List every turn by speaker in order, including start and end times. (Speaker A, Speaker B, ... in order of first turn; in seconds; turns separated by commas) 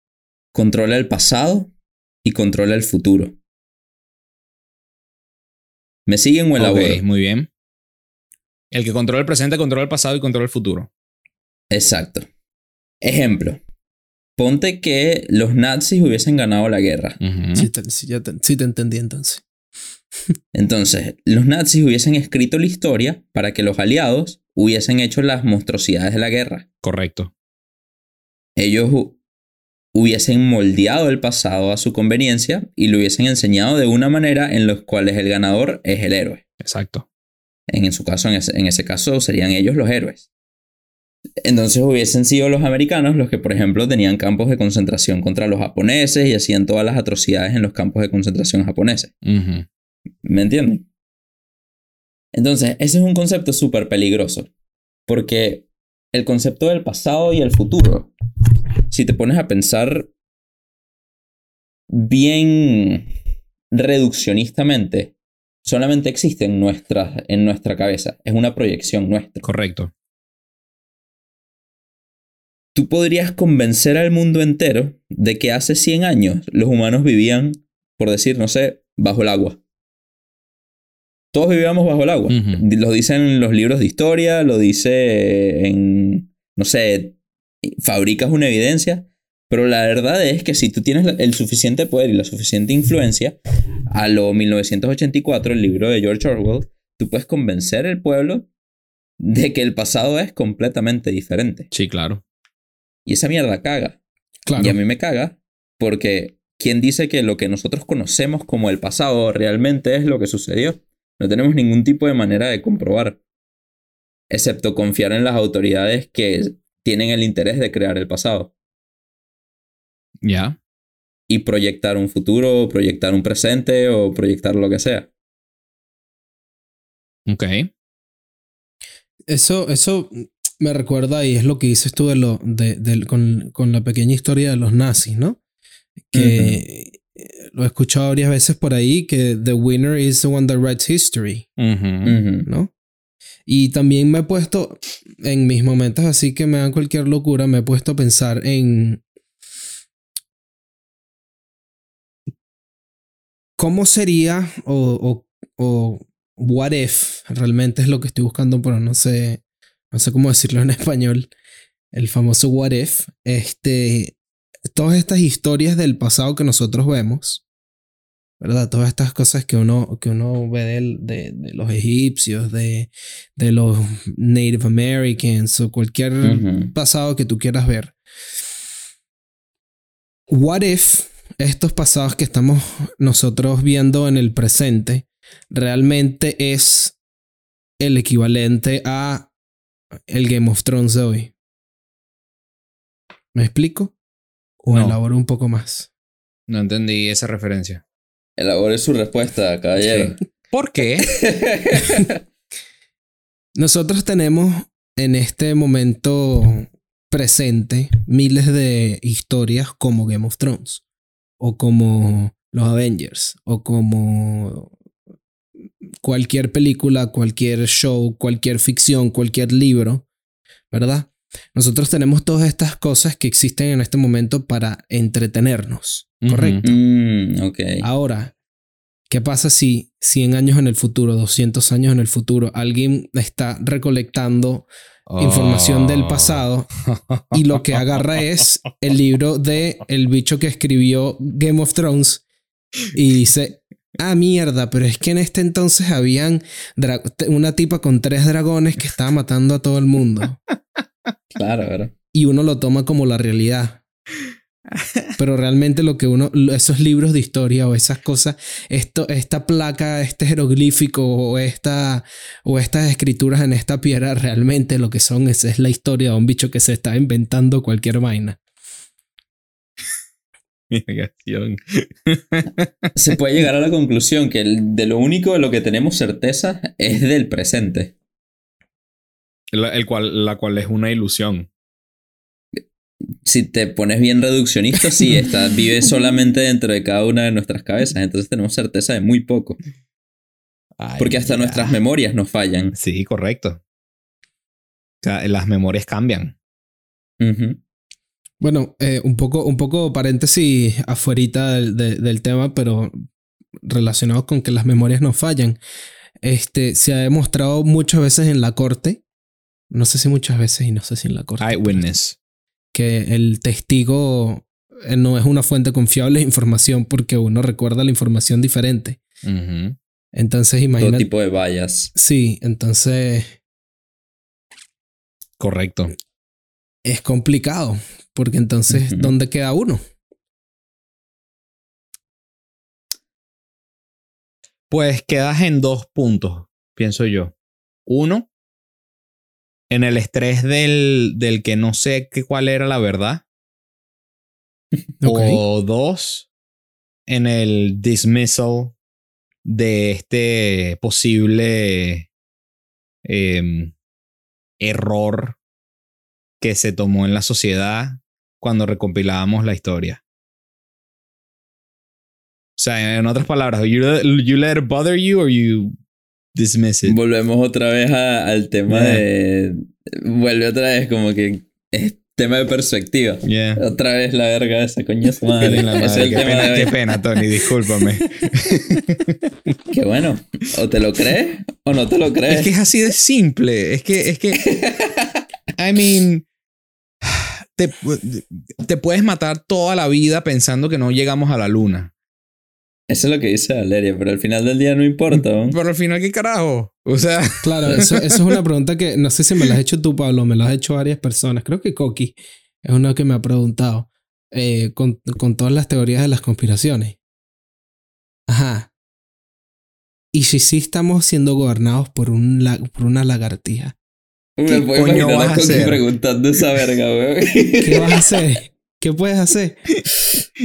Speaker A: 0.5-1.7, Speaker A: 2.2-3.4, Speaker A: 6.1-7.0, Speaker B: 6.6-7.5, Speaker B: 8.7-10.9, Speaker A: 11.7-12.3, Speaker A: 13.0-13.6, Speaker A: 14.4-17.2, Speaker B: 17.2-17.7, Speaker C: 17.6-19.4, Speaker A: 20.5-26.6, Speaker B: 26.8-27.3, Speaker A: 28.6-29.2, Speaker A: 29.9-36.4, Speaker B: 36.6-37.1, Speaker A: 37.7-40.3, Speaker A: 41.4-49.1, Speaker B: 49.2-49.7, Speaker A: 50.2-50.9, Speaker A: 52.3-54.5, Speaker A: 55.1-58.1, Speaker A: 58.9-60.1, Speaker A: 61.9-63.1, Speaker A: 63.7-69.5, Speaker B: 69.4-69.9, Speaker A: 72.8-79.6, Speaker A: 81.3-93.4, Speaker B: 82.3-82.6, Speaker A: 93.9-98.5, Speaker A: 99.2-101.7, Speaker B: 101.7-102.2, Speaker A: 103.1-104.0, Speaker C: 104.5-104.8, Speaker A: 104.6-113.2, Speaker A: 114.3-118.5, Speaker B: 120.2-120.6, Speaker A: 121.3-125.1, Speaker B: 127.3-127.7, Speaker C: 129.3-135.4, Speaker C: 136.1-141.5, Speaker B: 136.2-136.6, Speaker B: 141.6-142.2, Speaker A: 142.1-142.5, Speaker C: 142.5-142.7, Speaker C: 143.5-149.0, Speaker C: 153.6-161.3, Speaker C: 161.9-164.2, Speaker C: 164.7-167.4, Speaker C: 168.4-177.9, Speaker A: 176.2-176.7, Speaker C: 180.3-187.0, Speaker C: 187.8-189.3, Speaker C: 190.1-191.3, Speaker C: 193.3-193.9, Speaker C: 194.6-195.9, Speaker B: 194.7-195.0, Speaker B: 196.5-197.8, Speaker A: 198.4-200.2, Speaker B: 199.8-201.1, Speaker A: 201.0-202.2, Speaker C: 203.6-210.8, Speaker C: 211.4-214.7, Speaker C: 216.0-220.1, Speaker C: 220.7-226.7, Speaker B: 226.2-226.7, Speaker A: 226.6-227.8, Speaker C: 227.8-228.3, Speaker C: 229.1-236.7, Speaker B: 235.1-237.4, Speaker C: 237.3-242.2, Speaker C: 242.9-250.4, Speaker A: 251.3-251.9, Speaker C: 252.1-253.8, Speaker C: 255.2-268.4, Speaker B: 270.7-272.9, Speaker A: 272.9-277.9, Speaker B: 279.5-281.5, Speaker A: 283.2-289.6, Speaker B: 290.8-291.8, Speaker A: 291.0-292.8, Speaker B: 292.8-293.6, Speaker B: 295.0-296.4, Speaker A: 297.2-297.6, Speaker C: 298.4-303.0, Speaker C: 303.7-305.6, Speaker C: 306.2-309.0, Speaker C: 309.7-311.9, Speaker B: 311.4-312.2, Speaker C: 312.7-319.0, Speaker B: 319.2-319.8, Speaker C: 320.1-321.1, Speaker A: 320.8-321.9, Speaker C: 321.9-323.4, Speaker B: 325.4-325.9, Speaker C: 326.9-329.8, Speaker A: 328.7-329.1, Speaker B: 334.7-337.4, Speaker B: 337.9-338.3, Speaker B: 339.7-343.2, Speaker C: 345.0-345.4, Speaker B: 345.1-346.3, Speaker B: 347.1-348.8, Speaker B: 349.4-352.1, Speaker B: 353.1-353.7, Speaker B: 354.6-355.4, Speaker B: 356.4-360.0, Speaker B: 362.6-365.7, Speaker B: 366.4-367.0, Speaker A: 366.9-376.8, Speaker B: 368.7-369.0, Speaker B: 373.2-373.6, Speaker B: 375.4-379.2, Speaker A: 379.7-382.5, Speaker B: 382.3-384.4, Speaker A: 384.4-385.2, Speaker B: 385.6-386.3, Speaker B: 387.0-391.9, Speaker A: 392.9-395.6, Speaker B: 395.2-398.1, Speaker C: 397.4-407.0, Speaker C: 408.3-408.7, Speaker C: 410.1-413.8, Speaker A: 414.4-418.0, Speaker B: 414.5-415.8, Speaker C: 417.6-419.7